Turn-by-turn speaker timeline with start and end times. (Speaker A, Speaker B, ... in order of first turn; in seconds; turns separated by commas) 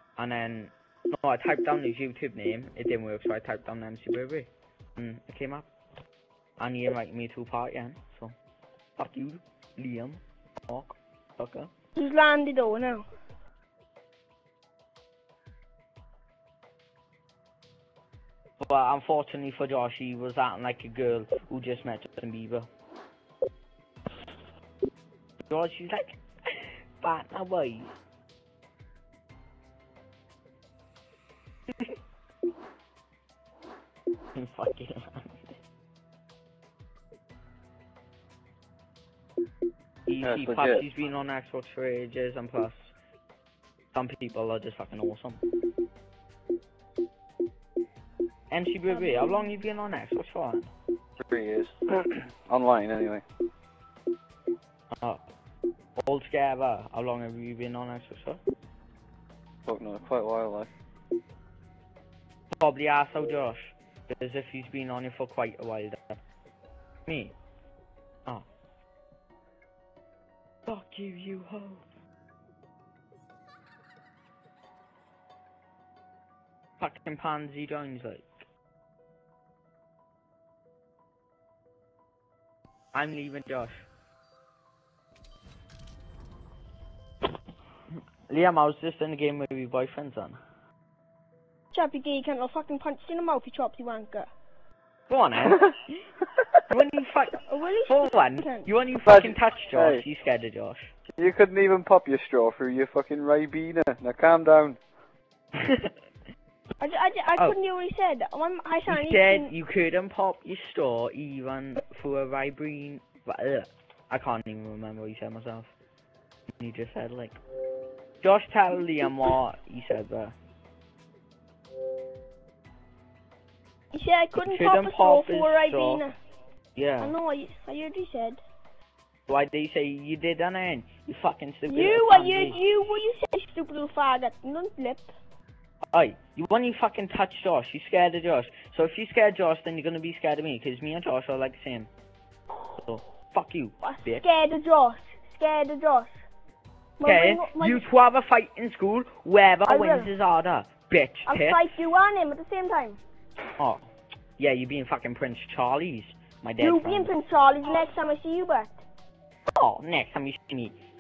Speaker A: 0.2-5.7, Speaker A: 6.6-8.3, Speaker A: 9.0-11.7, Speaker B: 11.9-13.1, Speaker A: 18.6-22.7, Speaker A: 25.5-27.9, Speaker A: 34.3-35.6, Speaker A: 40.0-42.9, Speaker C: 40.2-40.8, Speaker A: 43.9-45.4, Speaker A: 48.5-50.7, Speaker C: 51.2-53.2, Speaker A: 56.0-58.4, Speaker C: 59.6-60.7, Speaker A: 62.6-66.2, Speaker A: 67.0-67.3, Speaker A: 70.7-71.8, Speaker A: 76.8-78.3, Speaker A: 82.9-83.8, Speaker A: 88.3-90.4, Speaker B: 91.7-94.3, Speaker A: 95.1-96.0, Speaker A: 96.7-100.9, Speaker B: 97.5-98.7, Speaker C: 99.0-100.0, Speaker C: 101.2-104.8, Speaker A: 105.5-105.9, Speaker B: 106.8-109.5, Speaker A: 108.9-115.7, Speaker A: 116.6-117.4, Speaker A: 118.2-120.3, Speaker B: 123.9-126.1, Speaker A: 124.3-126.0, Speaker A: 126.8-127.1, Speaker B: 127.0-128.4, Speaker A: 129.3-132.6, Speaker B: 131.7-135.1, Speaker A: 135.9-141.9, Speaker A: 142.8-144.2, Speaker B: 143.8-146.1, Speaker B: 147.0-147.8, Speaker A: 147.0-151.7, Speaker B: 149.7-150.1, Speaker B: 151.3-153.0, Speaker A: 153.6-157.1, Speaker B: 156.6-158.8, Speaker A: 159.5-160.8